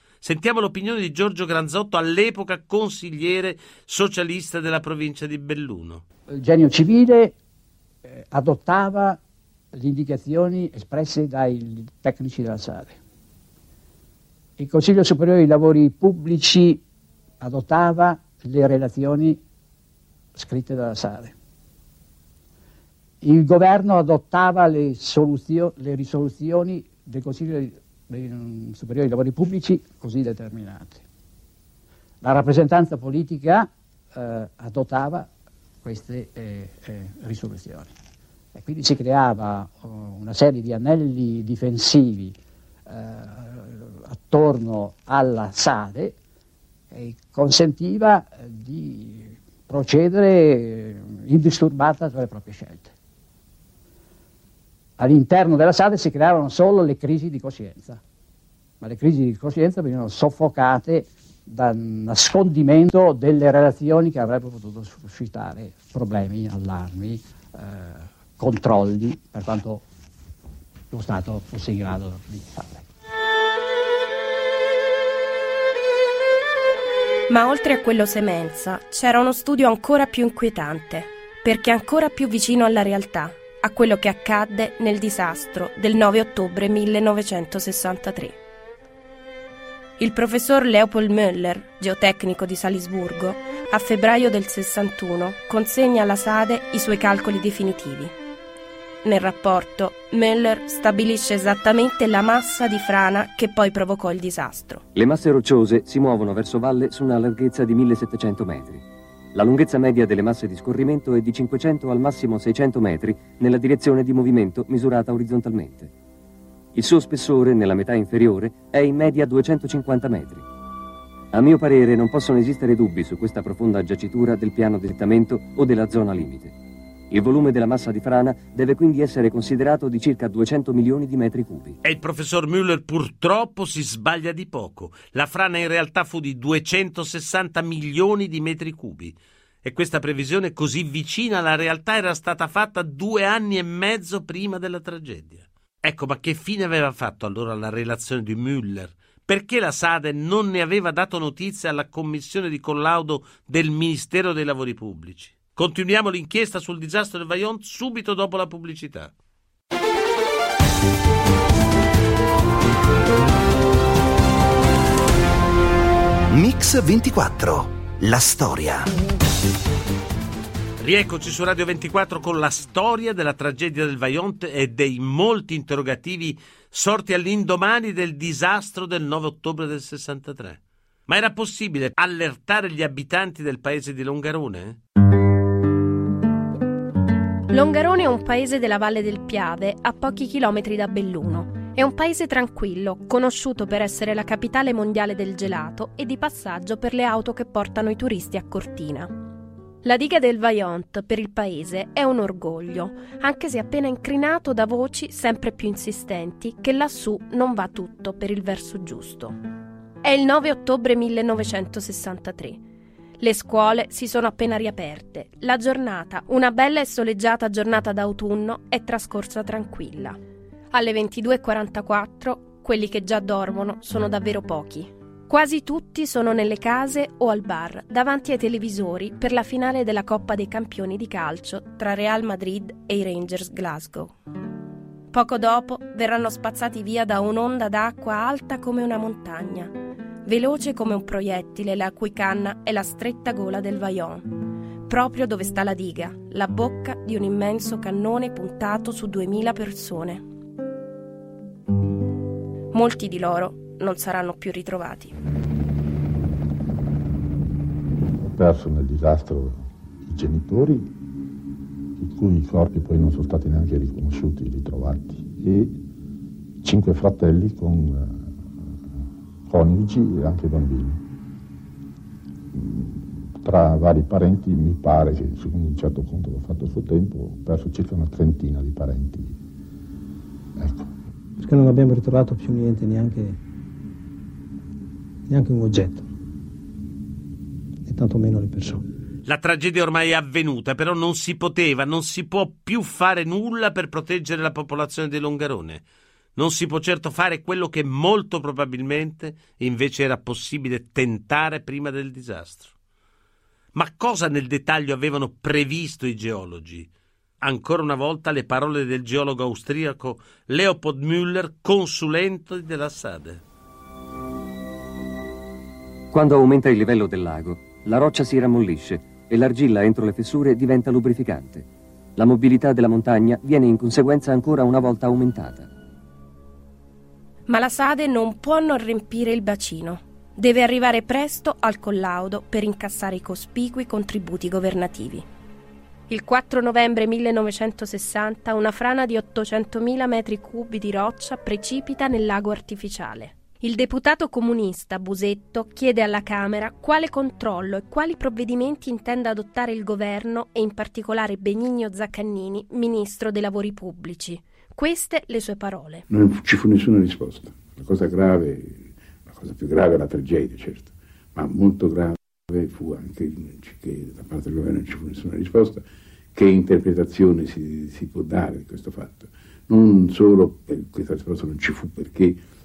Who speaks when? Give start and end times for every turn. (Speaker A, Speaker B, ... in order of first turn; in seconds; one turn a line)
Speaker A: 0.2-6.0
Speaker B: 6.3-7.3
Speaker B: 8.1-9.2
Speaker B: 9.7-13.0
Speaker B: 14.6-16.8
Speaker B: 17.4-19.4
Speaker B: 20.4-21.3
Speaker B: 23.2-31.0
Speaker B: 32.2-35.3
Speaker B: 35.8-38.0
Speaker B: 38.5-46.1
Speaker B: 46.9-52.9
Speaker B: 55.0-58.0
Speaker B: 58.8-69.8
Speaker B: 70.9-72.9
Speaker C: 77.3-88.4
Speaker C: 90.0-98.1
Speaker C: 99.0-104.8
Speaker D: 105.0-115.9
Speaker D: 116.7-120.5
Speaker D: 121.3-126.5
Speaker D: 127.1-131.8
Speaker A: 131.8-159.1
Speaker E: 166.3-168.9
Speaker A: 170.8-184.8
Speaker C: 187.5-199.1
Speaker C: 199.8-209.4
Speaker C: 210.0-212.6
Speaker C: 213.2-220.2
Speaker C: 220.7-234.2
Speaker C: 235.1-239.7
Speaker C: 240.2-244.3
Speaker C: 244.9-250.2
Speaker C: 252.7-255.2
Speaker F: 258.2-260.9
Speaker F: 262.0-265.8
Speaker F: 266.6-268.4
Speaker F: 269.5-271.0
Speaker F: 272.5-279.4
Speaker F: 280.6-280.9
Speaker G: 281.4-283.4
Speaker G: 285.3-286.1
Speaker G: 287.9-288.9
Speaker A: 289.2-295.8
Speaker A: 296.4-302.7
Speaker A: 303.8-306.9
Speaker A: 307.4-313.4
Speaker D: 316.1-325.7
Speaker C: 327.5-335.2
Speaker C: 336.1-356.0
Speaker H: 356.1-372.4